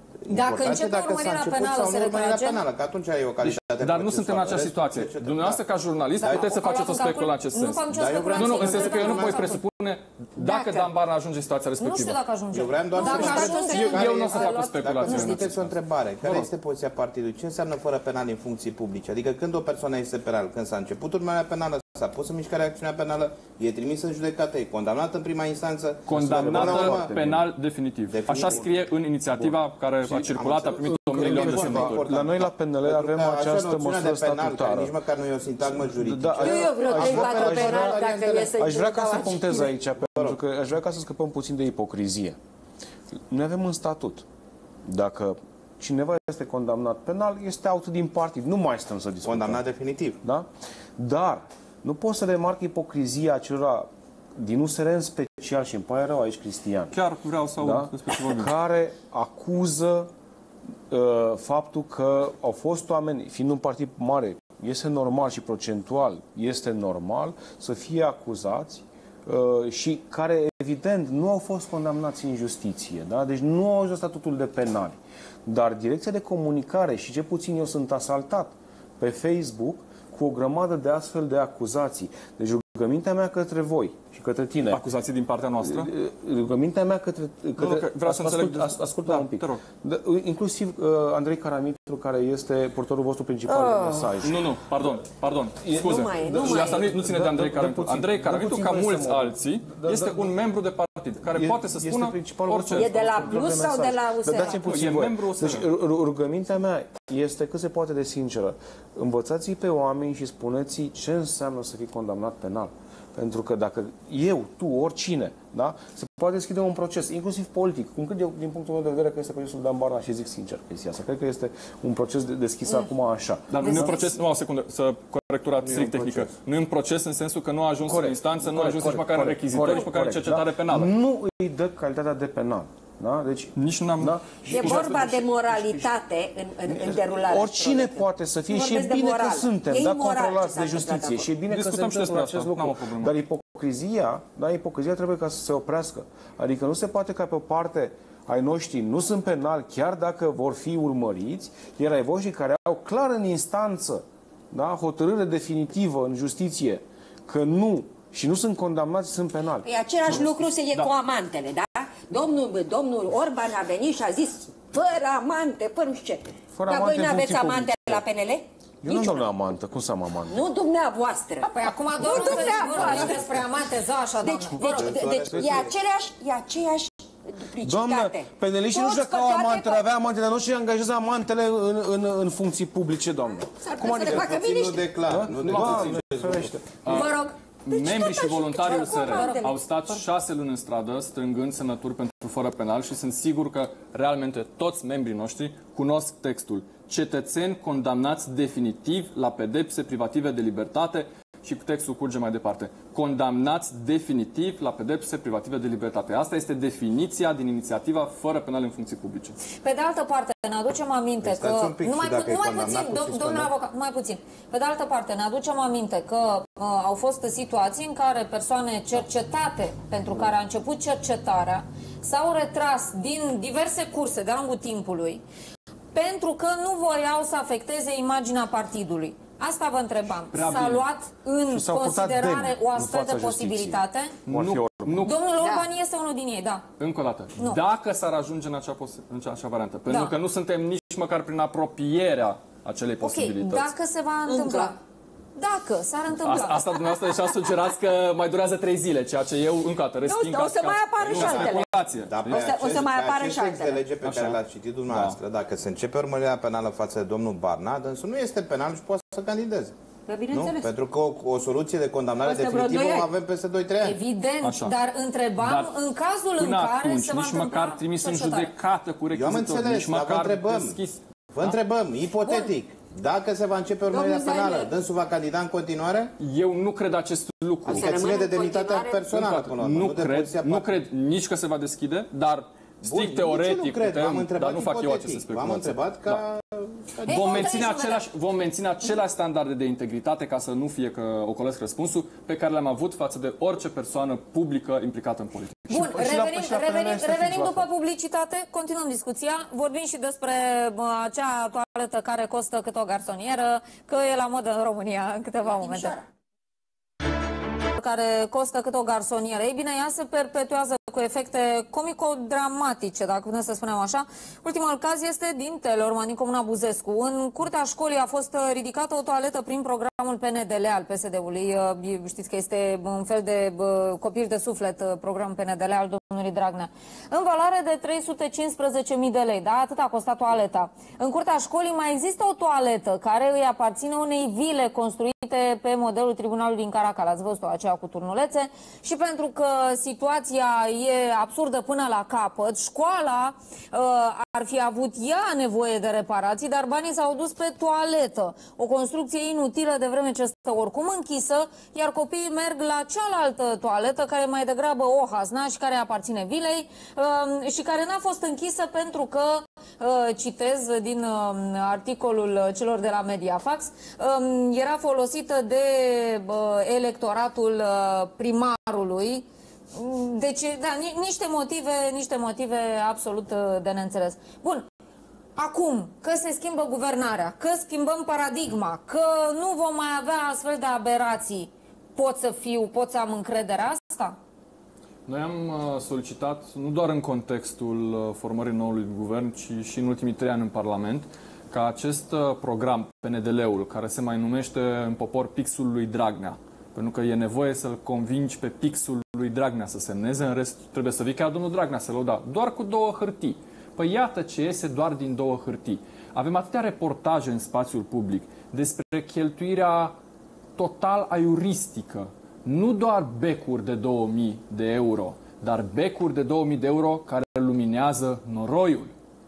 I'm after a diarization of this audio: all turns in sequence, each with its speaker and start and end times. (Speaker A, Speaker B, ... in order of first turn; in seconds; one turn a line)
Speaker A: 0.2-5.6
Speaker B: 0.3-2.6
Speaker C: 3.4-12.2
Speaker B: 6.2-9.6
Speaker A: 6.2-7.1
Speaker A: 7.9-9.6
Speaker B: 10.4-10.9
Speaker B: 11.8-15.5
Speaker A: 12.5-27.1
Speaker D: 12.9-14.0
Speaker C: 13.0-16.5
Speaker C: 26.1-32.1
Speaker E: 26.1-27.4
Speaker A: 28.1-28.7
Speaker E: 29.4-30.2
Speaker A: 30.1-38.6
Speaker E: 30.8-34.9
Speaker E: 35.6-42.4
Speaker D: 36.4-39.7
Speaker A: 40.0-40.4
Speaker E: 43.3-44.2
Speaker E: 44.8-49.6
Speaker A: 49.2-50.2
Speaker E: 50.2-56.9
Speaker C: 56.9-58.5
Speaker E: 57.6-60.1
Speaker E: 60.9-84.8
Speaker C: 84.7-85.9
Speaker E: 85.6-94.5
Speaker C: 87.6-89.6
Speaker D: 93.5-94.3
Speaker C: 94.2-103.4
Speaker E: 95.6-100.4
Speaker D: 95.7-97.0
Speaker E: 101.3-124.0
Speaker D: 102.8-104.7
Speaker C: 104.6-105.7
Speaker C: 123.5-130.9
Speaker B: 123.6-124.1
Speaker E: 125.6-126.3
Speaker E: 127.8-135.8
Speaker C: 133.6-135.1
Speaker D: 134.4-141.3
Speaker E: 136.7-160.3
Speaker C: 141.5-143.1
Speaker D: 159.6-169.2
Speaker E: 166.5-168.1
Speaker E: 168.8-170.4
Speaker D: 170.2-173.4
Speaker B: 171.4-174.9
Speaker D: 174.2-179.9
Speaker A: 174.6-175.7
Speaker E: 175.3-175.7
Speaker E: 177.6-187.0
Speaker D: 183.6-184.9
Speaker A: 183.9-187.0
Speaker C: 185.4-186.0
Speaker C: 186.8-187.1
Speaker B: 186.9-190.0
Speaker C: 187.6-209.4
Speaker D: 188.2-189.6
Speaker B: 209.6-225.2
Speaker A: 211.2-213.5
Speaker B: 225.9-234.1
Speaker C: 230.3-230.9
Speaker E: 231.5-235.1
Speaker C: 234.2-235.2
Speaker B: 235.0-236.6
Speaker D: 235.4-235.6
Speaker C: 236.8-243.7
Speaker B: 239.9-240.1
Speaker B: 243.0-244.8
Speaker D: 244.2-244.7
Speaker B: 245.3-247.2
Speaker C: 246.2-252.5
Speaker D: 250.0-253.9
Speaker A: 251.1-259.7
Speaker C: 254.0-255.2
Speaker D: 260.1-260.7
Speaker A: 260.3-264.0
Speaker D: 262.2-263.1
Speaker B: 263.8-268.5
Speaker C: 264.4-264.7
Speaker C: 265.4-265.8
Speaker C: 266.4-271.6
Speaker A: 269.1-270.8
Speaker A: 271.3-276.1
Speaker B: 272.2-272.5
Speaker D: 273.9-274.7
Speaker C: 276.2-277.9
Speaker D: 277.6-279.2
Speaker A: 277.6-280.7
Speaker C: 279.1-286.2
Speaker A: 282.8-287.6
Speaker C: 287.1-295.9
Speaker B: 287.1-288.1
Speaker E: 295.7-297.7
Speaker B: 295.7-306.0
Speaker D: 305.5-306.0
Speaker B: 307.8-374.6
Speaker B: 375.4-384.2
Speaker C: 385.1-409.9
Speaker C: 410.6-418.9